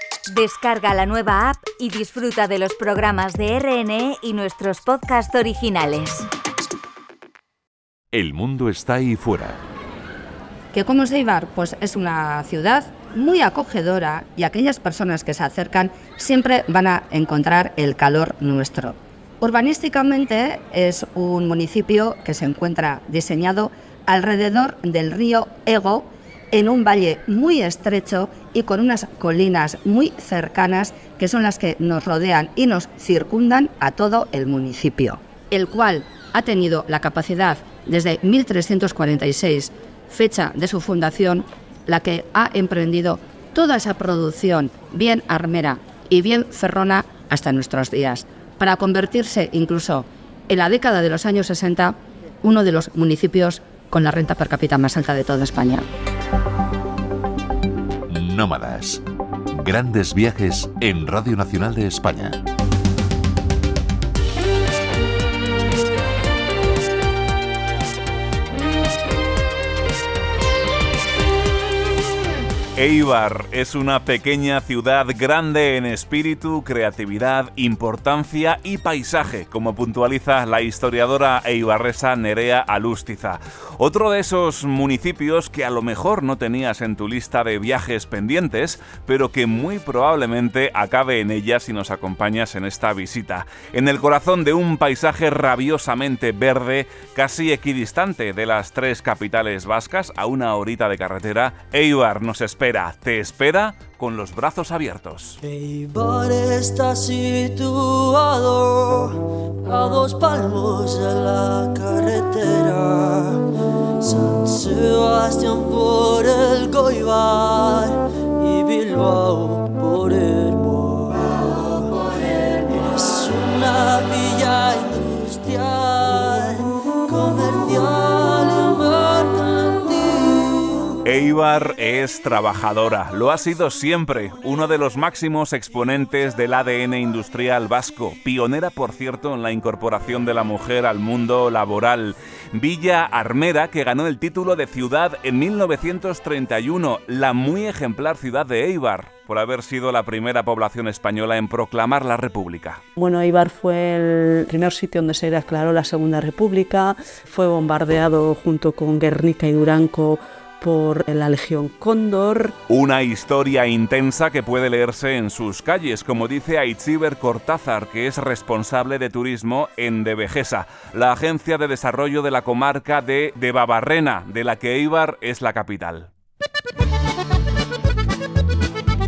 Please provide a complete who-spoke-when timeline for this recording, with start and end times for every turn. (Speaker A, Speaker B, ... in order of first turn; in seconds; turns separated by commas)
Speaker A: 0.3-6.3, Speaker B: 8.1-9.6, Speaker C: 10.7-55.8, Speaker B: 58.1-59.0, Speaker B: 59.5-62.4, Speaker D: 72.8-105.4, Speaker E: 105.4-113.4, Speaker E: 114.0-131.0, Speaker D: 131.0-152.8, Speaker F: 153.0-162.6, Speaker D: 162.7-176.1